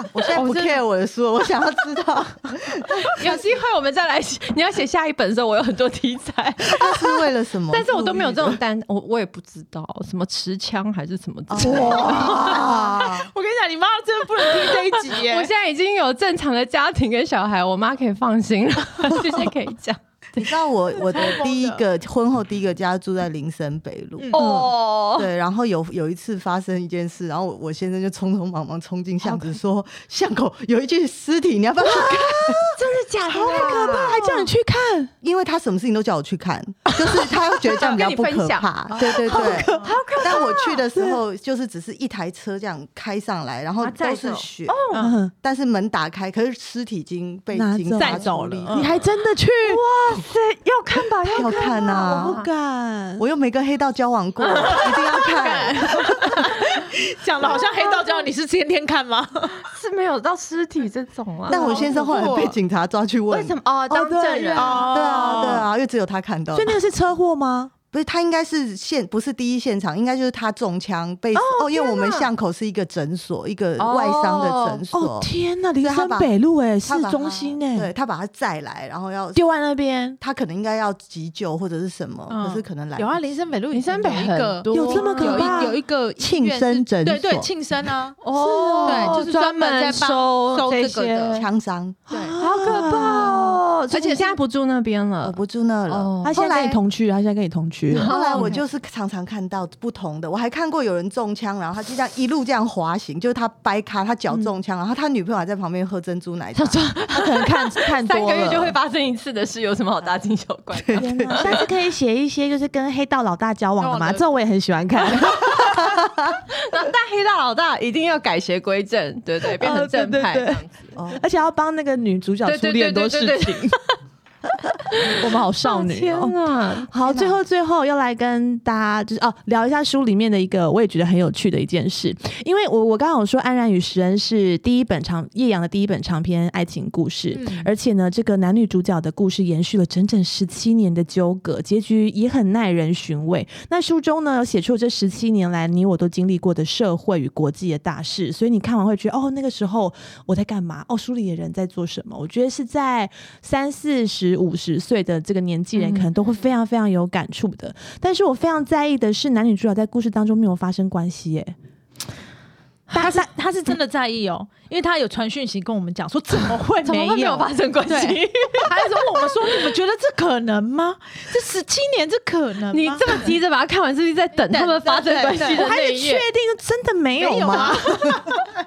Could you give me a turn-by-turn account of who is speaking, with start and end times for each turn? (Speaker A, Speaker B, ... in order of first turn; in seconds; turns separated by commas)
Speaker A: 0.1-3.5, Speaker B: 0.3-0.8, Speaker C: 3.1-12.7, Speaker A: 6.7-8.6, Speaker A: 11.5-13.3, Speaker B: 11.6-15.5, Speaker C: 14.4-20.6, Speaker A: 20.4-32.8, Speaker B: 21.0-21.8, Speaker B: 24.2-24.5, Speaker C: 24.3-25.3, Speaker C: 31.9-34.2, Speaker D: 33.3-35.1, Speaker A: 35.2-44.8, Speaker C: 37.7-40.9, Speaker D: 39.1-39.4, Speaker B: 39.3-40.0, Speaker D: 40.9-41.2, Speaker C: 43.8-45.0, Speaker B: 44.9-45.2, Speaker D: 45.0-45.3, Speaker A: 45.4-49.0, Speaker D: 47.5-49.8, Speaker B: 48.0-49.0, Speaker C: 49.6-52.5, Speaker A: 51.3-52.4, Speaker D: 51.4-53.2, Speaker A: 53.2-56.4, Speaker C: 54.4-55.5, Speaker B: 54.6-59.6, Speaker C: 57.4-58.3, Speaker C: 59.6-62.0, Speaker A: 61.5-63.6, Speaker B: 61.5-62.6, Speaker C: 63.3-65.0, Speaker D: 63.9-64.9, Speaker B: 64.5-65.7, Speaker A: 64.9-66.8, Speaker D: 66.5-67.7, Speaker A: 67.9-76.3, Speaker C: 71.3-72.3, Speaker C: 73.8-74.8, Speaker D: 74.9-77.9, Speaker A: 76.8-79.5, Speaker D: 79.3-80.2, Speaker A: 80.2-83.2, Speaker B: 82.3-88.2, Speaker C: 83.7-85.7, Speaker D: 84.7-85.8, Speaker A: 86.2-87.5, Speaker C: 88.2-91.5, Speaker D: 88.3-89.2, Speaker B: 88.8-91.5, Speaker A: 91.3-92.0, Speaker D: 92.1-93.6, Speaker B: 92.1-93.4, Speaker C: 92.4-96.4, Speaker B: 93.9-94.4, Speaker A: 95.2-96.8, Speaker D: 96.2-98.1, Speaker C: 97.9-98.6, Speaker A: 97.9-106.9, Speaker B: 98.3-98.6, Speaker C: 106.5-111.6, Speaker D: 107.1-108.8, Speaker A: 110.7-111.6, Speaker D: 111.0-115.5, Speaker B: 113.8-114.3, Speaker C: 115.2-115.9, Speaker A: 115.6-116.1, Speaker C: 116.5-120.8, Speaker D: 119.5-123.8, Speaker A: 121.0-121.2, Speaker C: 122.5-124.0, Speaker C: 124.9-126.9, Speaker D: 125.0-161.6, Speaker A: 127.0-127.4, Speaker B: 137.3-137.7, Speaker C: 155.8-156.1, Speaker B: 162.9-173.4, Speaker C: 166.8-169.7, Speaker C: 172.7-176.3, Speaker B: 174.3-175.6, Speaker D: 175.5-178.2, Speaker B: 177.2-178.4